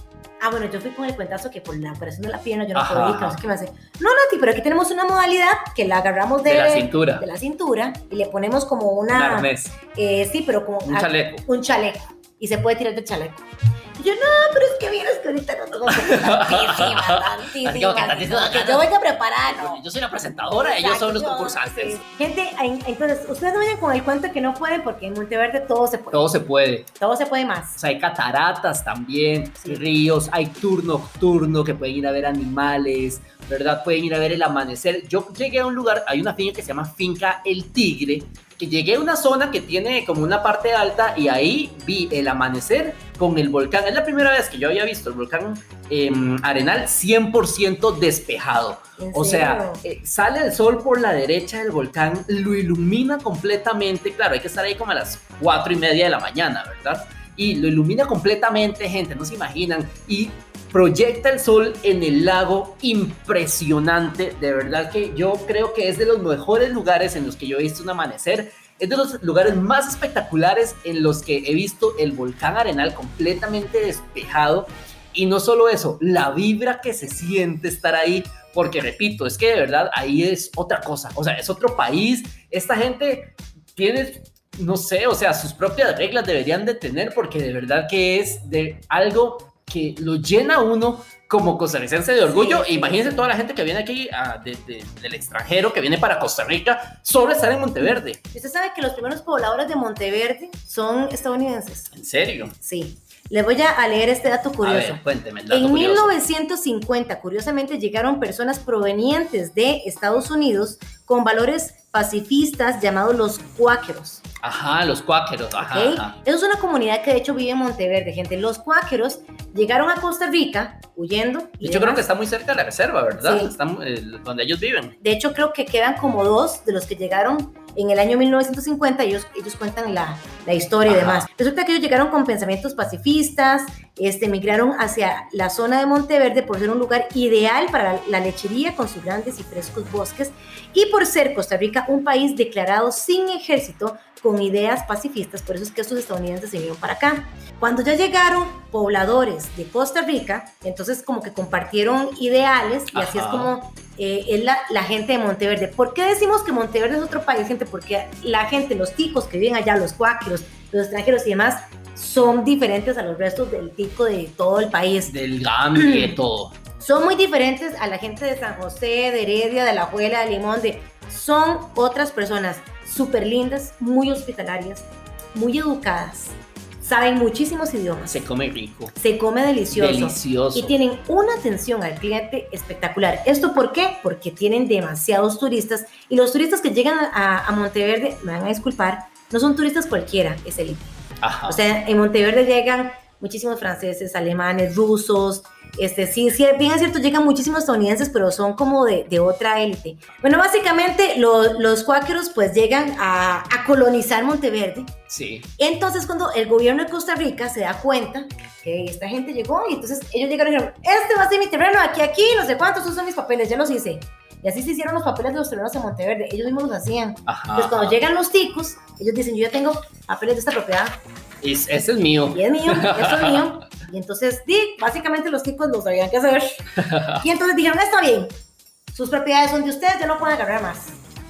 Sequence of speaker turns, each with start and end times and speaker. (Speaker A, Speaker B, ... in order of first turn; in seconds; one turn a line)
Speaker A: 0.4-19.8
Speaker B: 2.8-3.4
Speaker B: 6.5-7.2
Speaker B: 9.1-9.8
Speaker B: 10.8-11.4
Speaker B: 15.9-18.9
Speaker B: 19.5-22.0
Speaker A: 20.5-26.3
Speaker B: 26.1-26.9
Speaker A: 27.0-27.8
Speaker B: 27.8-98.2
Speaker A: 49.0-49.8
Speaker A: 92.3-93.3
Speaker A: 97.9-101.9
Speaker B: 101.9-102.5
Speaker A: 102.6-114.2
Speaker B: 104.6-106.2
Speaker B: 114.4-116.2
Speaker A: 115.6-122.0
Speaker B: 121.6-125.0
Speaker A: 123.2-123.5
Speaker A: 125.0-165.1
Speaker B: 130.9-131.3
Speaker B: 152.9-153.5
Speaker B: 165.1-166.6
Speaker A: 165.8-166.2
Speaker A: 166.8-178.2
Speaker B: 178.1-178.9
Speaker A: 178.9-204.9
Speaker B: 179.7-180.8
Speaker B: 191.2-191.6
Speaker B: 205.1-205.5
Speaker A: 205.6-221.0
Speaker B: 217.3-218.0
Speaker B: 221.4-223.5
Speaker A: 222.3-228.3
Speaker B: 226.8-227.2
Speaker A: 228.9-231.0